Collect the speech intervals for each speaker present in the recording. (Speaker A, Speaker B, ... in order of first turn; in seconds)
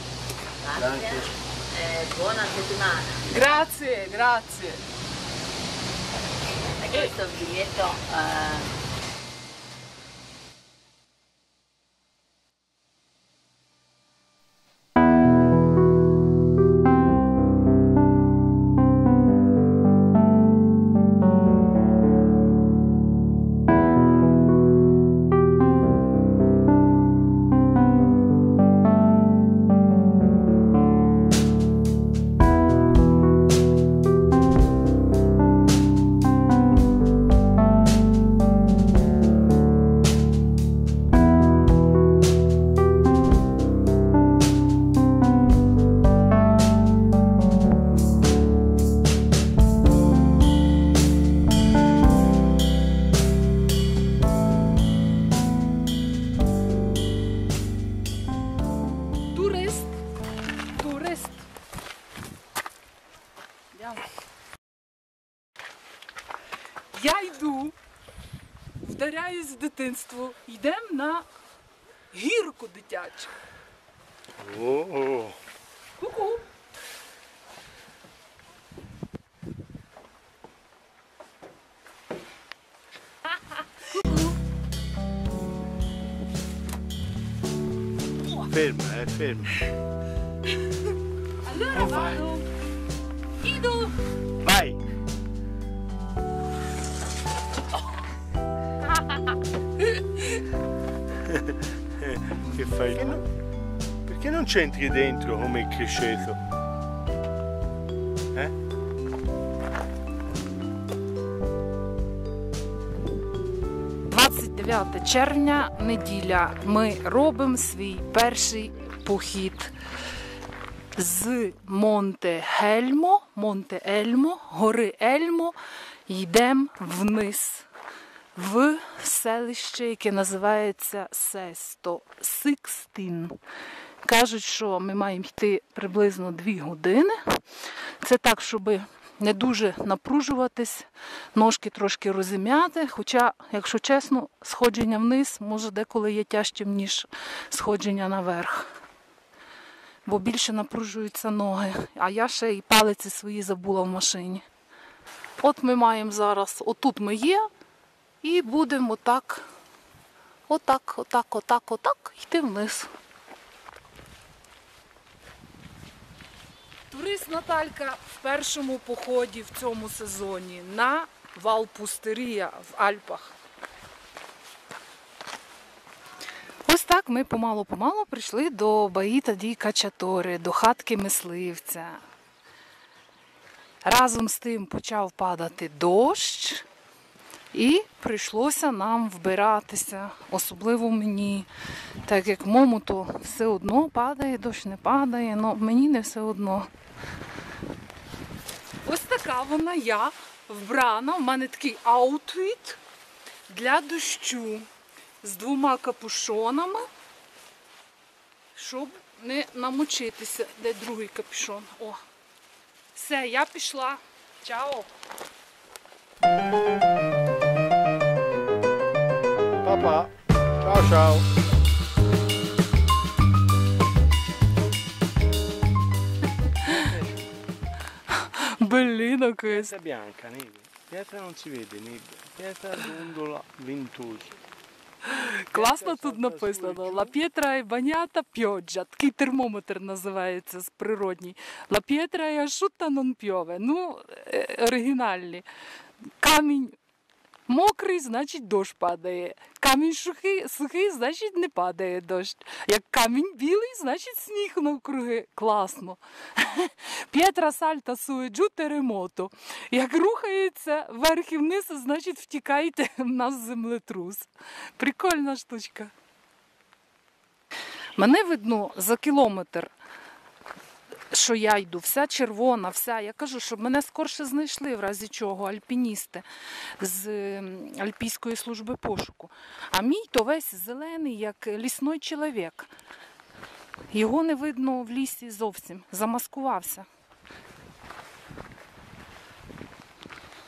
Speaker A: 0.6-3.2, 6.8-8.7
Speaker B: 3.3-4.8, 59.3-59.9, 60.7-61.5, 63.7-64.0, 66.9-67.7, 68.8-71.3, 72.1-73.3, 76.0-76.4, 83.9-84.2, 91.4-92.5, 93.4-94.0, 100.0-100.2, 114.0-119.7, 120.9-127.7, 128.3-133.4, 134.0-137.4, 138.0-148.7, 150.0-154.4, 155.4-157.5, 158.2-159.5, 160.5-162.9, 166.9-173.3, 176.6-182.0, 183.8-186.6, 187.5-191.5, 192.0-196.7, 198.8-202.8, 203.5-204.7, 205.2-206.9, 208.5-212.0, 212.9-214.9, 228.1-229.7, 235.0-245.4, 246.2-246.8, 247.5-265.9, 268.0-269.7, 271.1-276.2, 276.8-282.7, 283.9-286.9
Speaker C: 74.4-75.4, 88.4-89.6, 91.7-92.2, 94.4-94.8, 101.2-103.2, 104.0-106.4, 219.6-221.3, 226.7-227.0, 229.4-234.3, 235.3-237.1